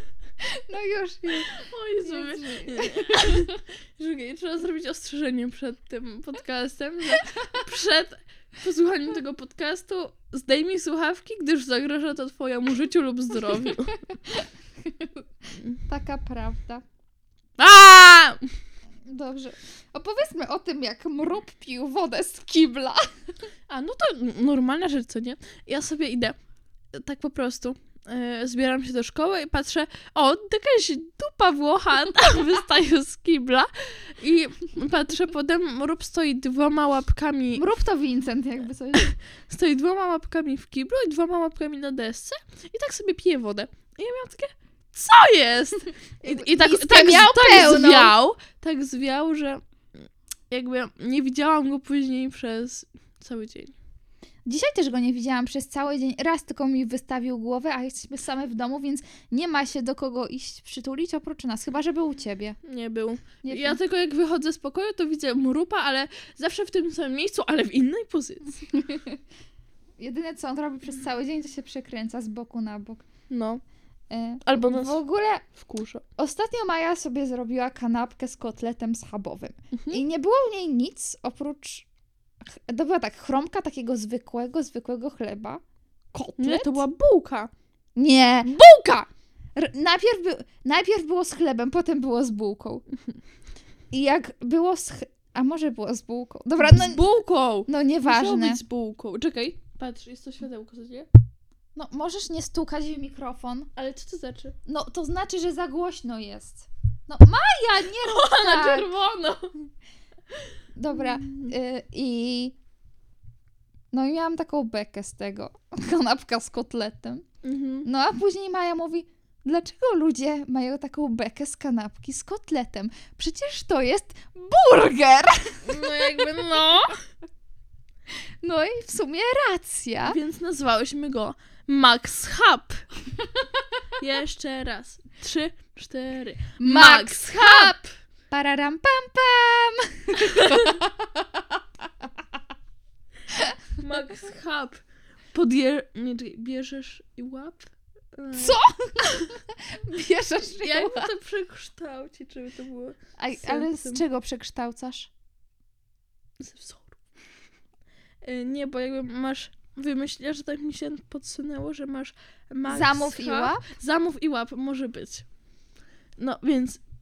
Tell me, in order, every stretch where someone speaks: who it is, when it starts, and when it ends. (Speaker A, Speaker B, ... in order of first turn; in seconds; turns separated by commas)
Speaker A: 0.4-3.6, Speaker B: 1.4-13.9, Speaker A: 14.3-15.2, Speaker A: 15.8-16.8, Speaker B: 17.6-18.4, Speaker A: 19.1-23.1, Speaker B: 23.7-26.4, Speaker B: 26.9-37.6, Speaker A: 37.6-39.1, Speaker B: 39.0-49.6, Speaker A: 46.2-48.1, Speaker B: 50.5-53.7, Speaker A: 54.5-62.6, Speaker B: 62.6-68.7, Speaker A: 63.4-63.8, Speaker A: 68.7-69.2, Speaker A: 70.0-73.0, Speaker B: 73.3-73.6, Speaker A: 74.1-75.5, Speaker B: 74.5-75.0, Speaker B: 75.5-76.0, Speaker A: 76.2-81.9, Speaker B: 79.7-80.0, Speaker A: 82.5-85.6, Speaker A: 86.1-86.8, Speaker B: 86.4-87.5, Speaker A: 88.0-88.6, Speaker B: 88.4-89.1, Speaker A: 89.6-92.8, Speaker A: 93.9-97.1, Speaker B: 96.6-101.1, Speaker A: 97.7-98.6, Speaker A: 101.8-103.7, Speaker B: 103.8-104.5, Speaker A: 104.7-108.9, Speaker B: 108.0-109.5, Speaker A: 110.8-112.5, Speaker B: 110.9-111.5, Speaker A: 113.9-117.3, Speaker B: 117.4-117.9, Speaker A: 117.8-126.2, Speaker B: 125.7-127.0, Speaker A: 128.4-130.2, Speaker B: 130.1-132.9, Speaker B: 134.0-137.8, Speaker A: 136.6-141.1, Speaker B: 140.2-140.8, Speaker B: 143.8-144.8, Speaker B: 145.3-149.3, Speaker A: 148.3-151.1, Speaker B: 150.5-154.0, Speaker A: 153.2-155.1, Speaker B: 156.4-157.0, Speaker B: 158.2-165.2, Speaker A: 162.7-163.6, Speaker B: 166.2-166.8